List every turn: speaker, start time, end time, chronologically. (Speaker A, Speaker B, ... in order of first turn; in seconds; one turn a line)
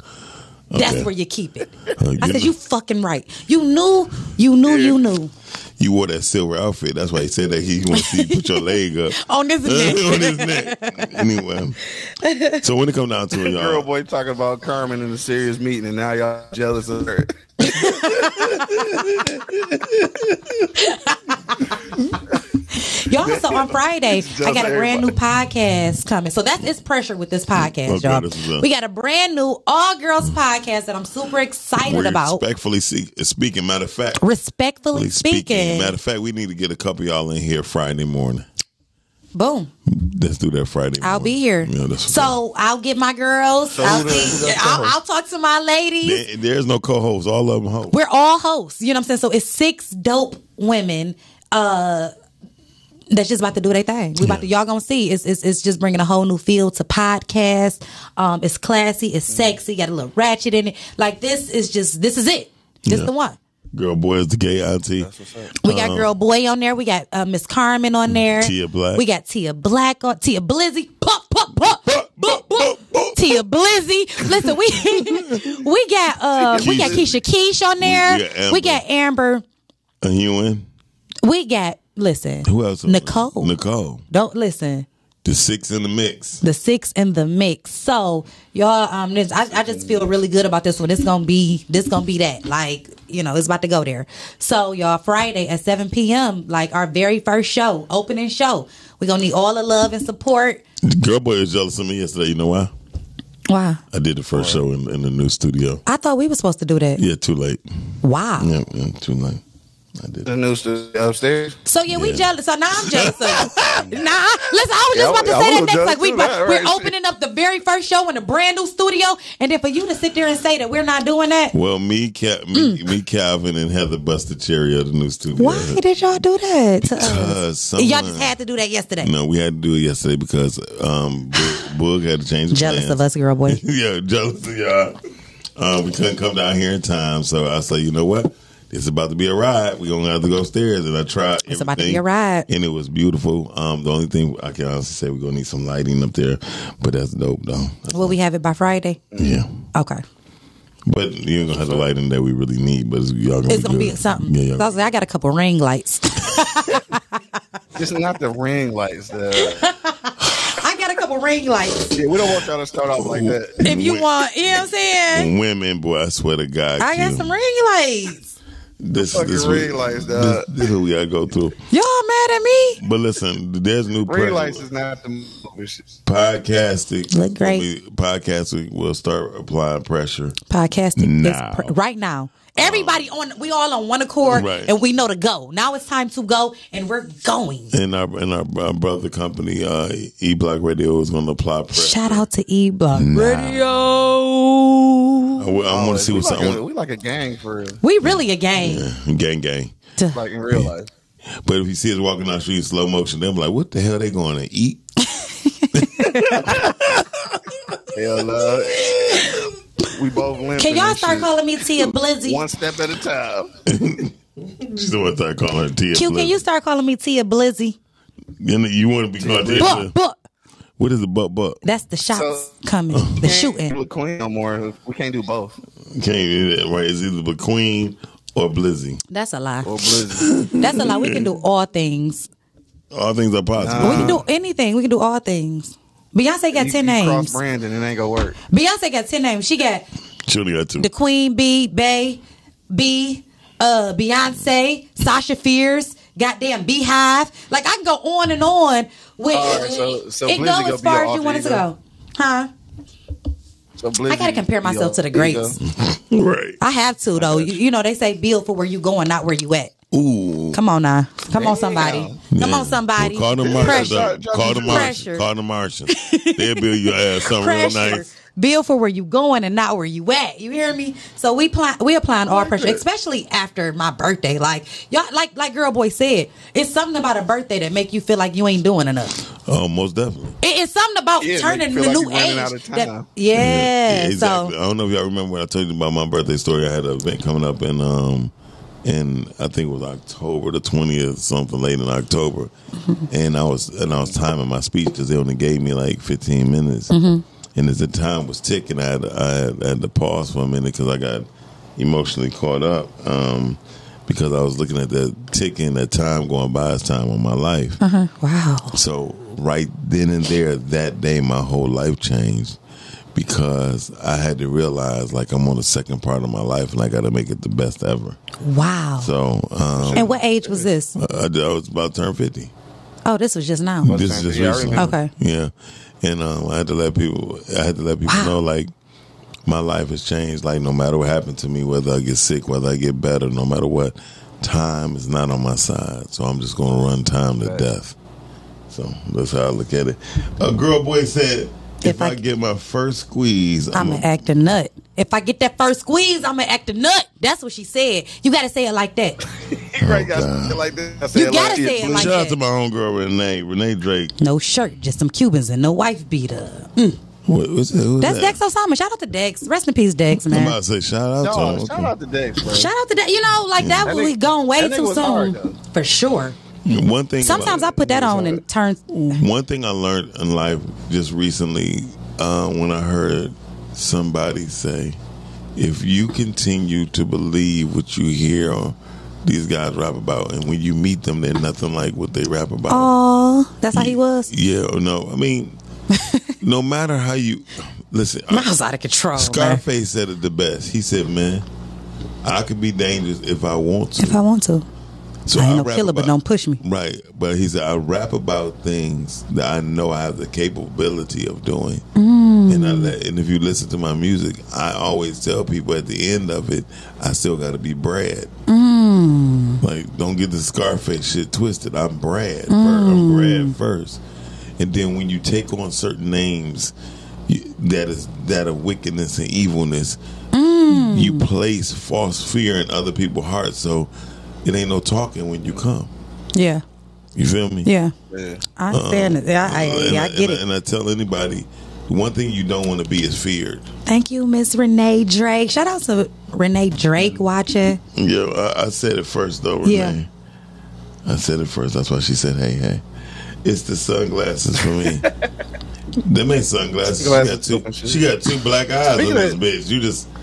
Speaker A: 0.7-1.1
Speaker B: 0.7-5.3
Speaker A: 2.0-2.5
Speaker C: 4.6-5.0
Speaker A: 5.8-11.8
Speaker B: 7.9-8.6
Speaker B: 9.1-11.2
Speaker B: 11.9-12.6
Speaker A: 12.6-13.9
Speaker C: 13.4-19.6
Speaker B: 17.6-18.6
Speaker B: 20.7-21.9
Speaker B: 22.7-32.4
Speaker C: 23.1-25.1
Speaker A: 27.5-28.6
Speaker A: 31.8-34.2
Speaker B: 34.2-35.9
Speaker A: 34.9-38.5
Speaker B: 39.3-39.7
Speaker A: 39.9-42.4
Speaker B: 41.0-46.2
Speaker C: 43.7-45.0
Speaker A: 43.8-44.4
Speaker A: 46.0-48.0
Speaker B: 47.9-52.1
Speaker B: 53.1-63.4
Speaker A: 54.2-54.4
Speaker C: 59.3-59.6
Speaker A: 62.9-63.1
Speaker A: 63.7-65.1
Speaker C: 65.0-65.5
Speaker B: 65.6-79.4
Speaker A: 65.6-66.1
Speaker A: 68.1-69.0
Speaker A: 71.8-73.4
Speaker A: 74.2-75.5
Speaker C: 76.4-77.0
Speaker A: 76.5-77.2
Speaker A: 77.8-78.8
Speaker A: 80.0-80.7
Speaker B: 81.2-83.5
Speaker A: 82.4-84.0
Speaker B: 84.1-84.8
Speaker A: 85.2-86.4
Speaker B: 86.4-100.6
Speaker C: 89.5-90.0
Speaker A: 100.8-102.7
Speaker B: 103.5-103.8
Speaker A: 103.9-105.8
Speaker C: 104.3-104.6
Speaker B: 105.8-107.0
Speaker A: 107.0-107.6
Speaker B: 108.0-108.5
Speaker A: 108.4-109.4
Speaker A: 110.0-110.3
Speaker C: 110.2-111.5
Speaker B: 111.7-121.5
Speaker A: 111.9-112.2
Speaker A: 112.8-113.9
Speaker C: 114.9-116.9
Speaker A: 121.5-125.8
Speaker B: 122.5-122.8
Speaker B: 125.4-129.1
Speaker A: 126.8-128.3
Speaker A: 129.0-134.9
Speaker B: 132.5-133.6
Speaker A: 135.6-148.2
Speaker B: 141.5-142.5
Speaker B: 147.9-149.0
Speaker C: 149.1-149.4
Speaker A: 149.2-149.6
Speaker B: 149.7-150.0
Speaker A: 150.8-154.7
Speaker B: 153.5-157.2
Speaker C: 157.8-159.7
Speaker B: 159.3-161.9
Speaker C: 161.9-163.6
Speaker A: 162.9-164.1
Speaker B: 163.6-165.3
Speaker A: 165.1-167.3
Speaker B: 166.8-168.3
Speaker A: 168.8-171.6
Speaker C: 168.9-170.6
Speaker B: 171.7-172.8
Speaker A: 172.8-174.6
Speaker C: 174.1-175.9
Speaker A: 176.1-180.3
Speaker B: 177.1-177.7
Speaker B: 180.5-187.7
Speaker A: 181.0-181.7
Speaker A: 182.6-183.1
Speaker A: 184.2-184.7
Speaker A: 187.7-192.2
Speaker B: 191.7-195.4
Speaker A: 192.9-193.7
Speaker A: 195.4-196.6
Speaker C: 195.7-197.8
Speaker B: 197.8-198.9
Speaker A: 198.0-199.7
Speaker C: 200.1-200.9
Speaker A: 201.4-204.8
Speaker B: 205.0-206.6
Speaker A: 205.7-207.8
Speaker C: 207.9-209.3
Speaker A: 208.4-209.5
Speaker C: 209.8-211.3
Speaker B: 210.6-212.4
Speaker C: 212.2-213.5
Speaker A: 213.7-216.4
Speaker B: 215.9-217.8
Speaker A: 218.4-219.9
Speaker C: 219.2-219.8
Speaker B: 219.6-220.2
Speaker A: 220.8-221.6
Speaker B: 221.6-223.7
Speaker C: 222.1-222.5
Speaker A: 222.9-223.2
Speaker C: 223.2-225.6
Speaker A: 225.9-229.0
Speaker B: 229.1-229.9
Speaker C: 229.6-230.5
Speaker A: 230.2-231.3
Speaker B: 230.6-232.3
Speaker A: 232.9-234.2
Speaker C: 233.5-234.2
Speaker B: 233.8-237.4
Speaker C: 236.5-238.4
Speaker B: 238.5-239.8
Speaker A: 240.2-240.9
Speaker B: 240.8-252.5
Speaker C: 249.3-251.7
Speaker C: 253.8-255.6
Speaker B: 254.1-255.6
Speaker A: 255.7-256.6
Speaker B: 256.6-259.7
Speaker C: 257.2-257.5
Speaker A: 259.9-260.6
Speaker B: 260.5-265.2
Speaker C: 261.3-262.2
Speaker A: 262.3-268.1
Speaker C: 263.4-264.9
Speaker B: 265.9-279.2
Speaker C: 272.3-272.8
Speaker A: 279.4-280.4
Speaker B: 280.4-284.5
Speaker C: 281.2-283.1
Speaker A: 283.3-288.3
Speaker A: 288.8-292.5
Speaker A: 293.1-296.9
Speaker B: 296.9-297.2
Speaker A: 297.5-307.8
Speaker B: 307.8-308.8
Speaker A: 308.7-312.6
Speaker A: 313.1-318.2
Speaker B: 318.4-319.1
Speaker A: 319.0-320.1
Speaker C: 319.8-320.6
Speaker B: 319.9-320.9
Speaker A: 320.9-322.5
Speaker B: 323.0-324.0
Speaker A: 323.8-328.7
Speaker C: 323.8-324.9
Speaker B: 324.7-325.1
Speaker B: 328.1-328.3
Speaker A: 329.4-337.9
Speaker A: 338.7-344.1
Speaker B: 341.8-342.2
Speaker B: 343.7-349.2
Speaker C: 349.5-352.1
Speaker A: 349.8-350.6
Speaker B: 351.1-352.4
Speaker A: 351.8-354.1
Speaker B: 354.2-357.0
Speaker A: 357.2-358.4
Speaker B: 358.0-360.6
Speaker A: 360.1-361.9
Speaker C: 361.2-362.7
Speaker B: 362.4-366.4
Speaker A: 363.6-363.9
Speaker C: 363.8-365.6
Speaker A: 366.6-367.9
Speaker B: 367.2-369.2
Speaker C: 367.8-368.4
Speaker A: 369.1-375.0
Speaker A: 375.6-382.9
Speaker B: 382.7-384.3
Speaker A: 383.7-385.6
Speaker B: 385.9-386.3
Speaker A: 386.4-388.5
Speaker B: 388.3-389.6
Speaker A: 389.1-391.4
Speaker A: 392.2-394.2
Speaker B: 394.0-394.7
Speaker A: 395.2-401.8
Speaker B: 395.3-396.6
Speaker B: 401.9-402.9
Speaker A: 402.5-408.3
Speaker B: 408.5-409.6
Speaker A: 409.6-414.0
Speaker B: 412.5-413.5
Speaker A: 414.6-416.7
Speaker A: 417.3-420.0
Speaker B: 420.3-421.3
Speaker A: 420.7-423.9
Speaker A: 424.4-425.9
Speaker B: 426.3-426.6
Speaker A: 427.1-427.7
Speaker B: 427.6-427.9
Speaker C: 428.1-428.4
Speaker B: 428.6-430.4
Speaker A: 428.7-433.7
Speaker B: 433.9-437.8
Speaker A: 437.9-440.1
Speaker B: 439.6-439.9
Speaker A: 441.0-442.8
Speaker A: 443.4-445.1
Speaker C: 444.8-445.0
Speaker A: 446.0-450.1
Speaker C: 447.0-448.0
Speaker C: 448.9-449.4